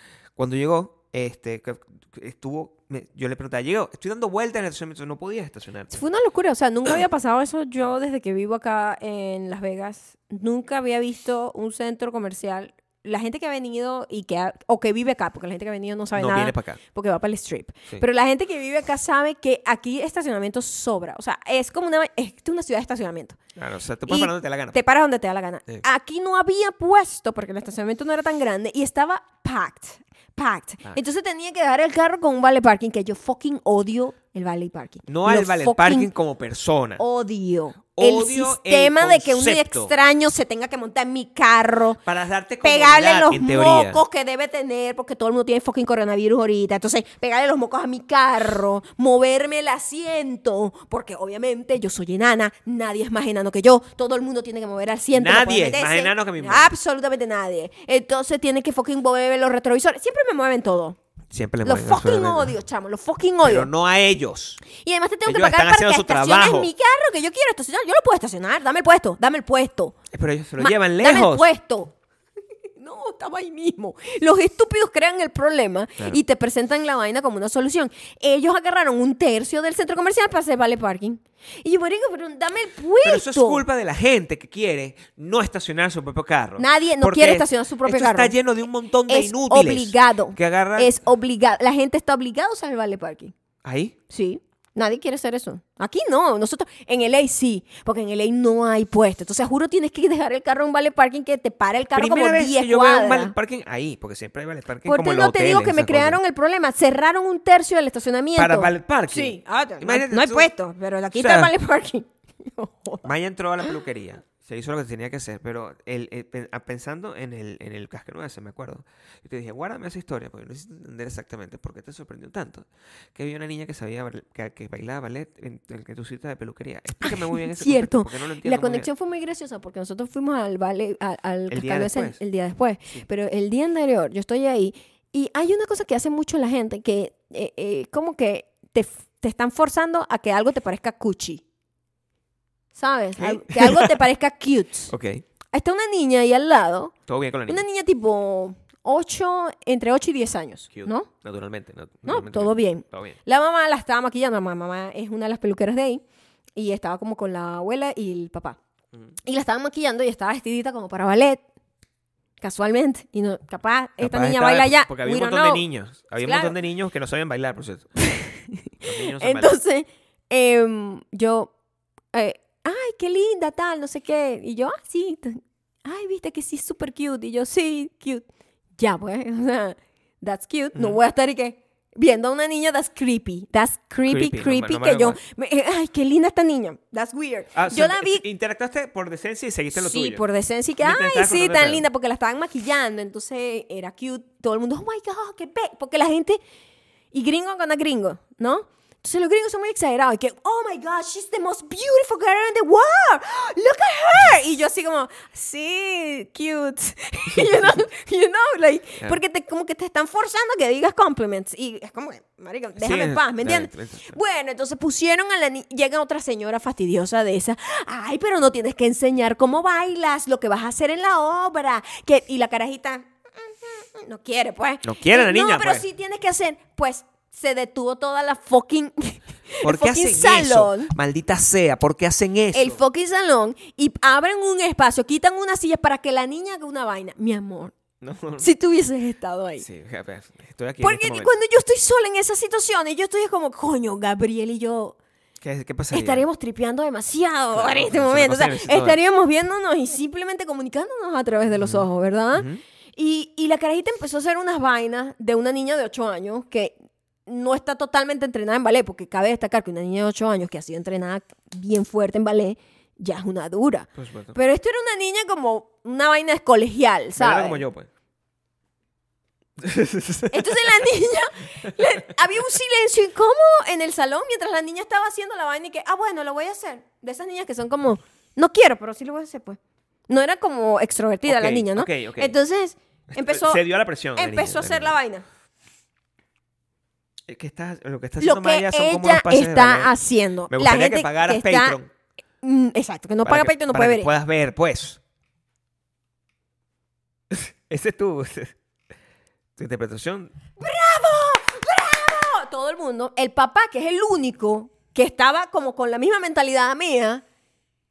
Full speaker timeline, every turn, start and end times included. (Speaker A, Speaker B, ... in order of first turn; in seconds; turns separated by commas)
Speaker A: 0.3-6.0, Speaker B: 5.9-23.4, Speaker A: 16.1-16.8, Speaker A: 23.6-24.8, Speaker B: 24.1-36.1, Speaker A: 35.1-37.0, Speaker B: 37.0-42.0, Speaker A: 38.0-39.9, Speaker A: 42.0-44.0, Speaker B: 42.6-61.0, Speaker A: 55.1-56.7, Speaker A: 61.3-62.5, Speaker B: 61.6-63.7, Speaker A: 63.4-64.6, Speaker B: 64.6-70.0, Speaker A: 65.2-66.7, Speaker A: 70.1-71.5, Speaker B: 70.6-71.9, Speaker B: 72.8-83.6, Speaker A: 83.0-90.9, Speaker B: 86.6-88.3, Speaker B: 89.1-93.3, Speaker A: 93.6-94.0, Speaker B: 94.1-103.3, Speaker A: 101.9-106.2, Speaker B: 104.8-113.1, Speaker A: 108.3-110.5, Speaker A: 111.1-111.5, Speaker A: 113.0-128.9, Speaker B: 127.0-141.4, Speaker A: 131.5-132.2, Speaker B: 142.7-144.9, Speaker A: 143.2-144.0, Speaker A: 144.9-145.2, Speaker B: 145.5-146.9, Speaker A: 147.1-147.6, Speaker B: 147.5-151.1, Speaker A: 150.7-153.2, Speaker B: 152.0-156.0, Speaker B: 156.6-158.6, Speaker B: 159.2-161.4, Speaker B: 162.4-165.6, Speaker A: 164.0-167.9, Speaker B: 166.2-166.5, Speaker B: 168.0-171.5, Speaker A: 168.8-169.6, Speaker B: 172.1-178.2, Speaker B: 178.8-188.2, Speaker A: 184.1-185.2, Speaker A: 187.5-190.2, Speaker B: 189.7-196.4, Speaker A: 190.8-191.8, Speaker B: 197.1-230.9, Speaker A: 207.3-207.7, Speaker A: 212.8-214.2, Speaker A: 224.8-225.8, Speaker A: 229.6-232.8, Speaker B: 232.5-237.7, Speaker A: 238.0-238.5, Speaker B: 238.4-239.7, Speaker A: 239.6-241.3, Speaker B: 240.8-245.0, Speaker A: 245.4-246.2, Speaker B: 245.9-267.6, Speaker A: 247.5-249.0, Speaker A: 251.5-252.6, Speaker A: 263.9-264.4, Speaker A: 267.2-267.9, Speaker A: 269.6-270.7, Speaker B: 270.3-283.6, Speaker A: 281.2-282.3, Speaker A: 283.1-284.9, Speaker B: 284.1-285.2, Speaker A: 287.3-289.9, Speaker B: 288.2-291.8, Speaker A: 290.5-291.9, Speaker B: 292.4-294.1, Speaker A: 293.2-295.0, Speaker A: 297.3-298.6, Speaker A: 299.6-300.3, Speaker B: 300.6-307.2